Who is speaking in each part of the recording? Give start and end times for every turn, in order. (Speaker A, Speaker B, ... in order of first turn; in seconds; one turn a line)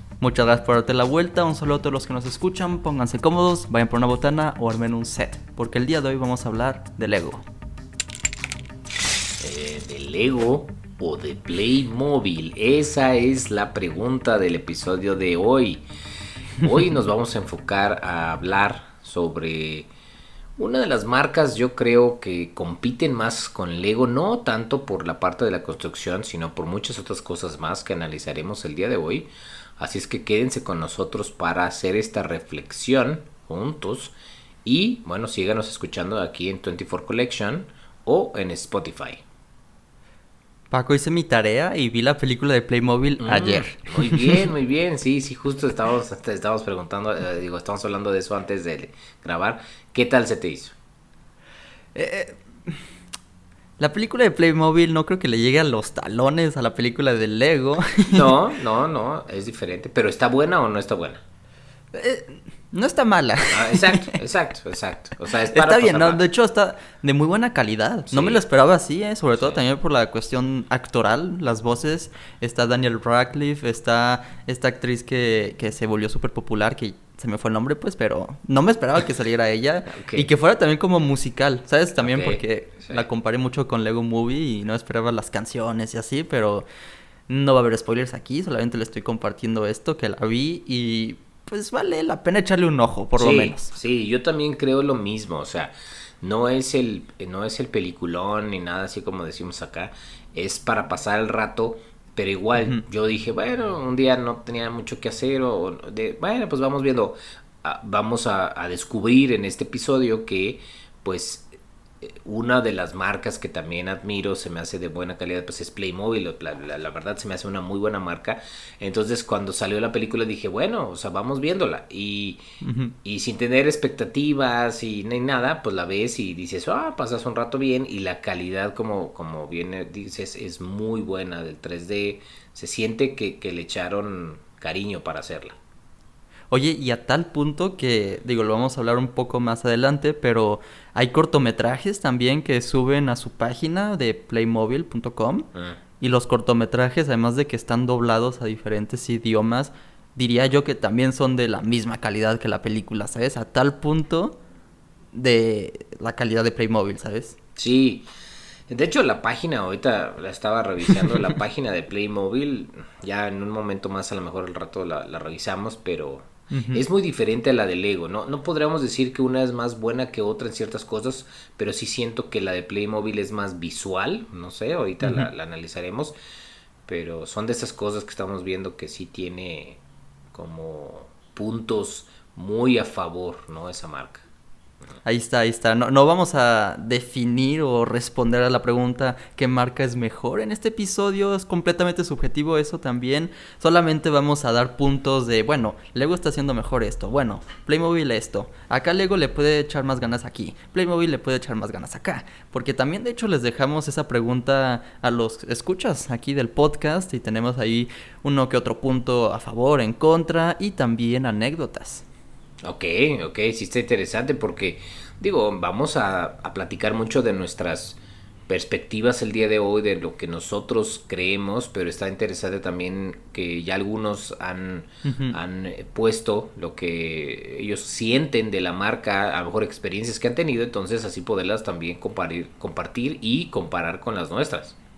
Speaker A: 0.2-7.5
Speaker B: 9.4-15.8
Speaker B: 16.6-19.9
Speaker B: 20.6-34.1
Speaker B: 34.6-39.2
Speaker A: 40.7-44.5
Speaker B: 43.2-50.8
Speaker A: 52.0-52.8
Speaker A: 53.8-58.3
Speaker B: 58.1-61.2
Speaker A: 61.9-64.2
Speaker B: 63.5-66.2
Speaker A: 65.5-86.7
Speaker B: 68.1-68.4
Speaker B: 79.9-80.3
Speaker B: 82.0-83.1
Speaker A: 87.3-93.7
Speaker B: 93.2-111.5
Speaker B: 112.0-122.4
Speaker A: 122.6-123.0
Speaker B: 123.0-135.6
Speaker A: 136.5-145.5
Speaker A: 146.0-154.4
Speaker A: 155.1-157.4
Speaker B: 157.6-158.1
Speaker B: 158.7-176.1
Speaker A: 166.5-166.8
Speaker B: 176.9-179.8
Speaker B: 180.3-184.2
Speaker A: 185.1-212.0
Speaker B: 212.6-234.8
Speaker A: 225.1-225.4